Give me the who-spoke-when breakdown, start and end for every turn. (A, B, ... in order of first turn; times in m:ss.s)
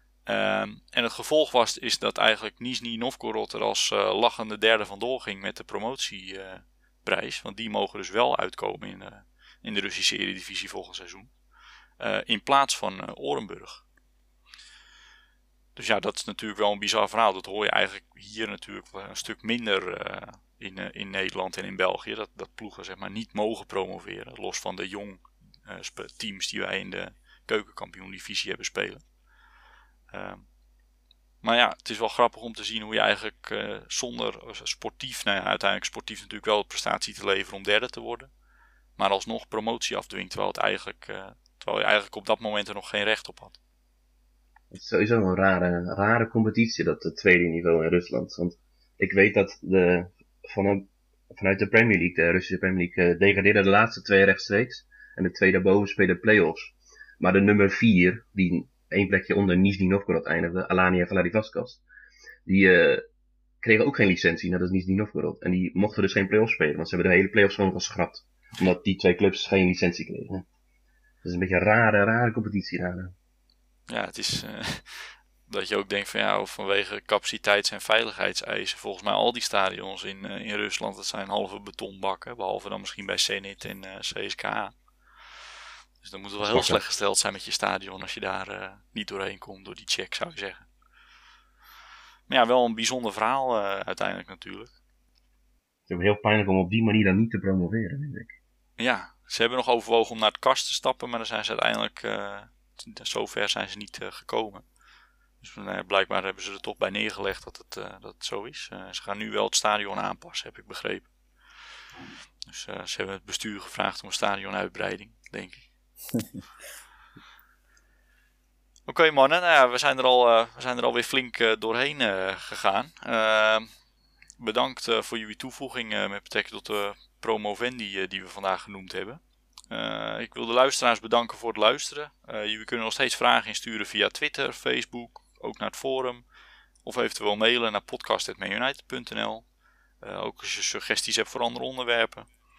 0:00.2-0:11.3 A
0:12.0-0:13.8 A
0:15.8-0:29.0 A
0:30.1-0:30.4 A
0:31.4-0:38.3 A
0:39.0-0:43.6 A
0:44.7-1:01.8 B
1:02.4-1:03.0 B
1:03.6-1:10.4 B
1:11.2-1:13.1 B
1:13.9-1:24.7 A
1:26.0-1:30.7 A
1:26.4-1:26.8 B
1:32.3-1:34.7 A
1:35.9-1:38.4 B
1:38.8-1:44.6 A
1:45.4-1:51.1 A
1:52.5-1:55.6 A
1:58.9-2:03.7 A
2:04.4-2:16.2 A
2:16.8-2:19.4 A
2:20.0-2:22.3 A